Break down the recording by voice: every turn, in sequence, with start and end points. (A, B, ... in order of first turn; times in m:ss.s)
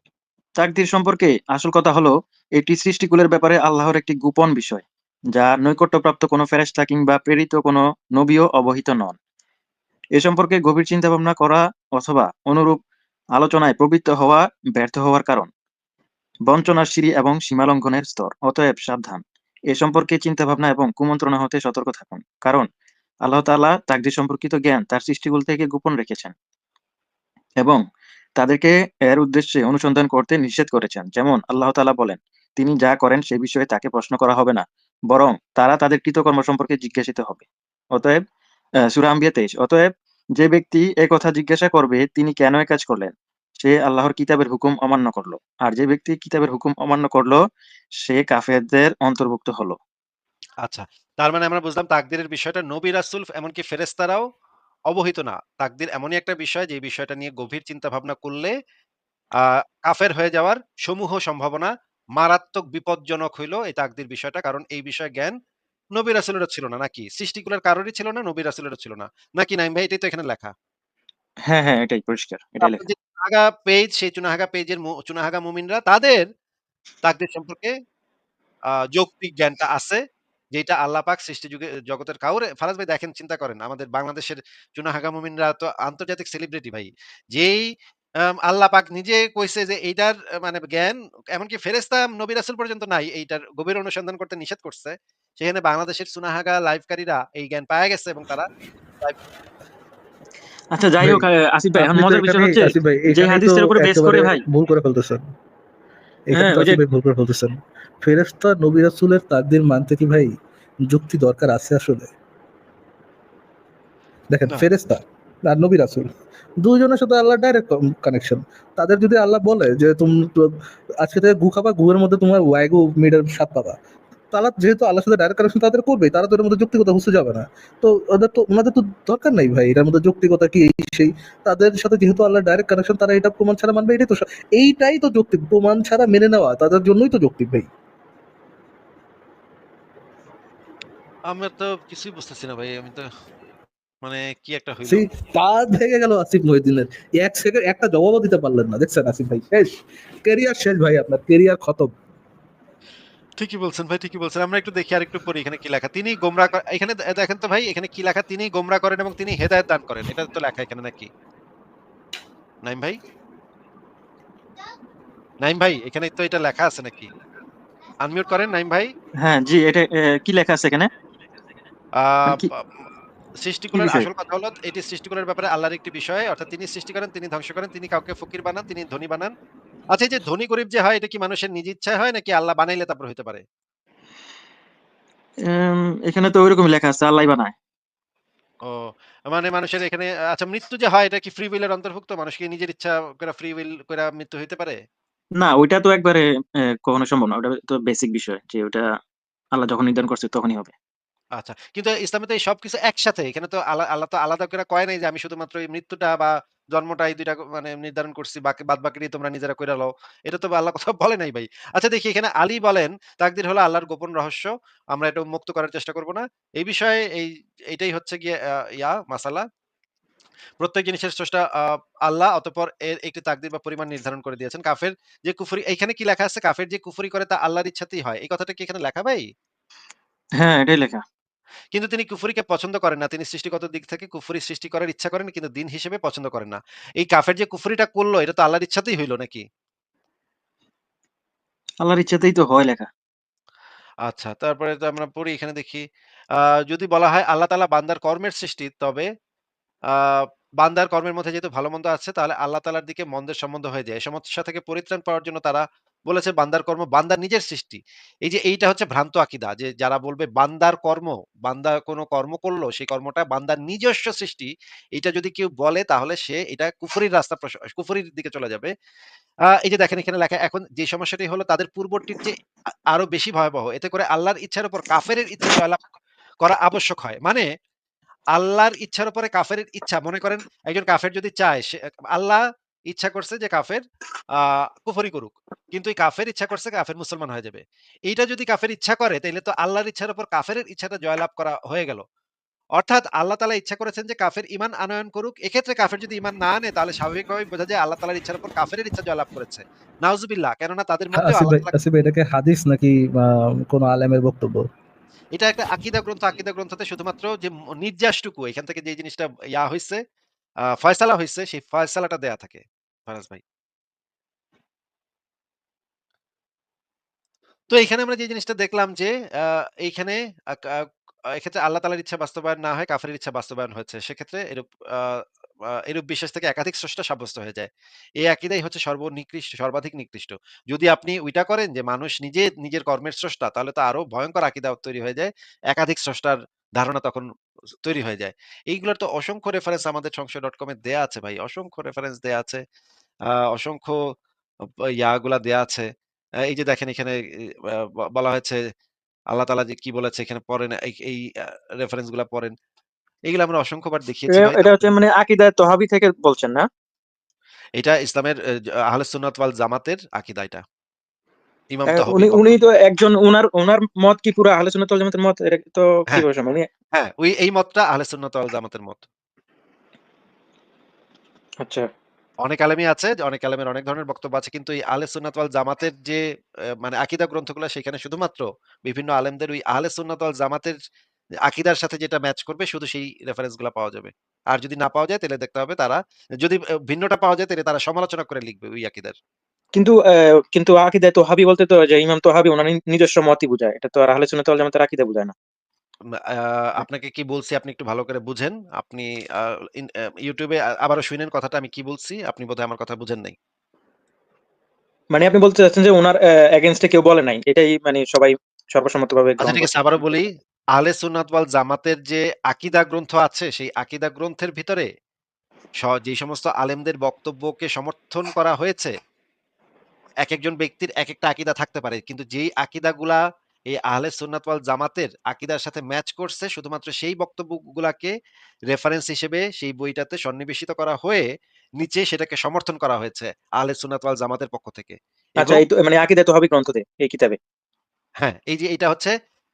0:00.6-0:09.2 A
0:10.2-0:12.8 A
0:13.4-0:15.5 A
0:16.5-0:22.7 A
0:23.2-0:26.3 A
0:28.4-0:38.2 A
0:38.8-0:47.4 A
0:48.0-0:49.8 A
0:50.6-0:54.3 B
0:54.9-0:58.5 B
0:59.4-1:05.4 B
1:06.0-1:10.5 B
1:11.5-1:12.8 A
1:12.6-1:16.3 B
1:17.0-1:17.8 B
1:18.7-1:20.0 B
1:20.5-1:27.7 B
1:28.2-1:38.5 B
1:40.7-1:44.4 A
1:41.0-1:41.3 C
1:41.8-1:45.3 C
1:46.3-1:50.3 C
1:46.4-1:46.8 A
1:50.9-1:52.1 C
1:54.3-2:03.8 C
2:04.3-2:17.7 C
2:21.3-2:23.1 B
2:24.0-2:25.1 B
2:24.9-2:31.9 C
2:33.4-2:41.1 B
2:42.6-2:43.0 B
2:45.4-2:47.1 B
2:48.0-2:48.9 B
2:49.2-2:50.9 A
2:52.0-2:52.9 B
2:53.4-2:59.3 B
2:53.7-2:54.1 A
2:59.9-3:03.4 B
3:05.4-3:07.5 A
3:08.6-3:14.8 B
3:15.4-3:18.9 A
3:19.5-3:20.7 A
3:21.4-3:39.5 B
3:40.6-3:49.3 B
3:50.4-3:51.0 A
3:51.7-3:59.4 B
4:01.8-4:02.9 A
4:04.1-4:09.1 B
4:09.9-4:28.7 B
4:29.6-4:32.4 B
4:32.9-4:35.8 B
4:36.4-4:37.5 B
4:38.3-4:43.8 B
4:44.4-4:52.0 B
4:52.8-5:01.7 B
5:01.1-5:04.7 C
5:05.4-5:10.0 B
5:10.7-5:13.4 B
5:17.7-5:25.2 B
5:25.9-5:27.7 B
5:28.2-5:37.3 B
5:37.8-5:42.6 B
5:43.3-5:44.0 B
5:45.0-5:45.9 B
5:46.5-5:48.6 B
5:49.3-5:52.5 B
5:53.3-5:55.0 B
5:54.3-5:56.7 A
5:57.8-5:58.4 B
5:58.9-6:00.6 B
6:01.7-6:02.6 B
6:01.9-6:06.7 A
6:06.9-6:09.1 B
6:11.6-6:11.9 A
6:12.4-6:16.2 B
6:16.8-6:20.8 B
6:21.5-6:29.2 B
6:29.8-6:35.3 A
6:36.3-6:43.4 B
6:45.1-6:50.0 A
6:49.4-6:54.9 B
6:55.8-6:58.9 B
7:00.2-7:08.1 B
7:08.7-7:11.3 B
7:11.8-7:15.6 B
7:15.4-7:17.4 A
7:18.2-7:19.1 B